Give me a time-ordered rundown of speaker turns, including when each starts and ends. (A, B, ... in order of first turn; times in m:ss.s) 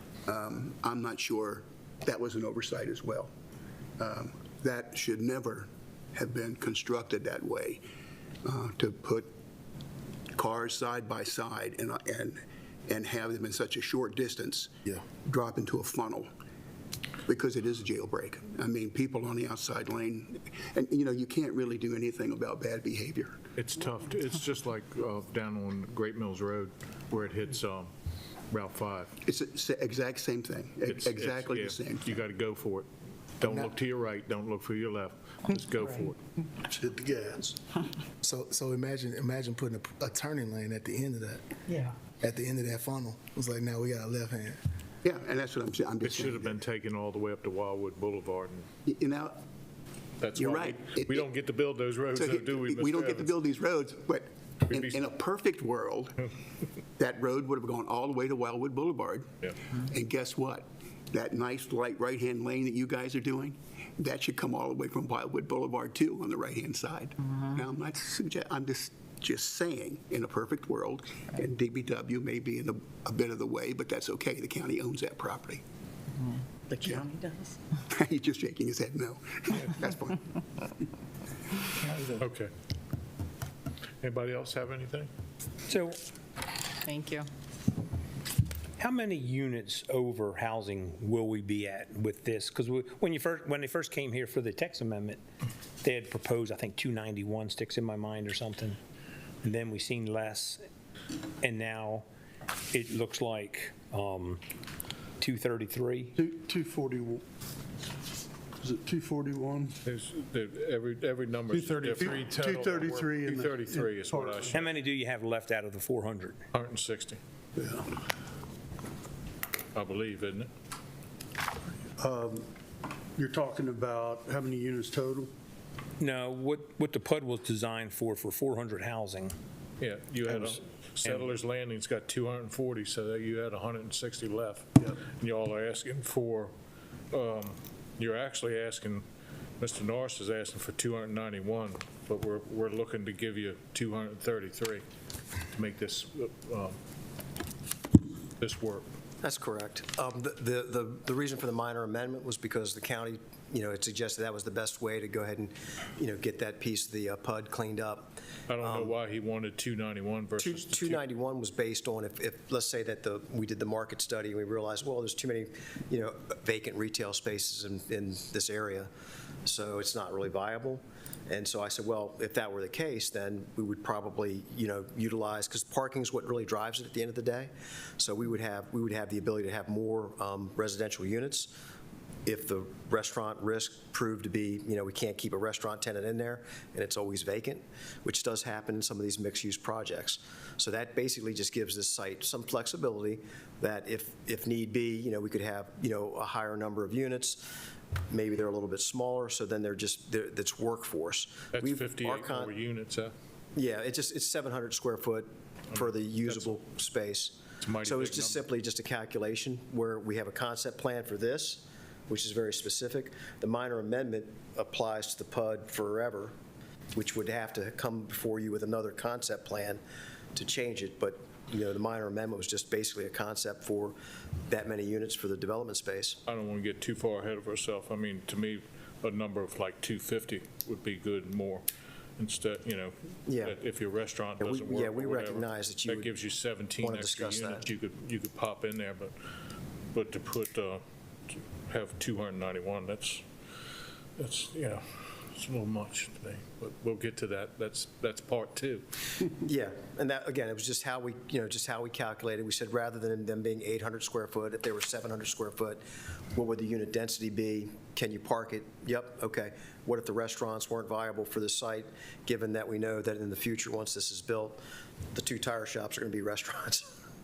0:00.3-0:03.3 A
0:04.0-0:07.8 A
0:08.4-0:09.3 A
0:10.3-0:14.7 A
0:15.2-0:16.3 A
0:17.3-0:23.4 A
0:23.6-0:27.9 B
0:28.5-0:29.1 B
0:29.2-0:32.2 A
0:30.9-0:32.9 B
0:33.4-0:36.2 B
0:33.4-0:33.7 C
0:36.6-0:37.6 C
0:38.2-0:44.6 C
0:45.0-0:46.6 A
0:46.0-0:48.7 B
0:48.8-0:49.4 A
0:50.2-0:53.3 B
0:50.4-0:51.3 A
0:52.1-0:56.2 A
0:54.7-0:55.0 B
0:57.0-0:59.3 A
0:59.9-1:15.6 A
1:07.2-1:07.5 D
1:16.3-1:17.5 D
1:16.8-1:17.1 A
1:17.9-1:20.2 A
1:21.9-1:22.5 B
1:24.0-1:25.1 B
1:25.7-1:26.0 E
1:26.8-1:27.3 D
1:28.8-1:35.2 E
1:35.8-1:38.8 E
1:39.4-1:40.7 E
1:41.4-1:42.1 E
1:42.7-1:44.4 E
1:45.2-1:46.2 E
1:46.2-1:47.2 F
1:48.6-1:49.8 F
1:49.8-1:54.7 B
1:51.5-1:54.6 F
1:54.5-1:56.4 E
1:56.5-1:57.2 B
1:57.6-1:57.9 F
1:59.7-2:00.5 B
2:02.0-2:02.5 F
2:03.2-2:05.3 F
2:06.0-2:09.4 E
2:09.8-2:16.5 B
2:17.1-2:19.0 B
2:19.6-2:24.8 B
2:25.5-2:26.8 B
2:28.4-2:28.8 B
2:29.2-2:39.0 G
2:38.5-2:41.0 B
2:40.4-2:48.9 G
2:49.4-3:01.5 G
3:02.2-3:17.5 G
3:18.1-3:22.5 G
3:21.5-3:23.1 B
3:23.5-3:36.3 G
3:25.7-3:26.5 B
3:27.6-3:28.4 B
3:36.9-3:39.8 G
3:40.3-3:44.0 G
3:44.5-3:46.2 G
3:46.2-3:51.6 B
3:52.2-3:59.1 B
3:53.2-3:53.6 G
3:54.4-3:56.1 G
3:56.8-3:57.6 G
3:59.9-4:03.2 B
4:04.2-4:08.8 B
4:09.4-4:15.8 G
4:16.3-4:24.6 G
4:25.1-4:26.9 G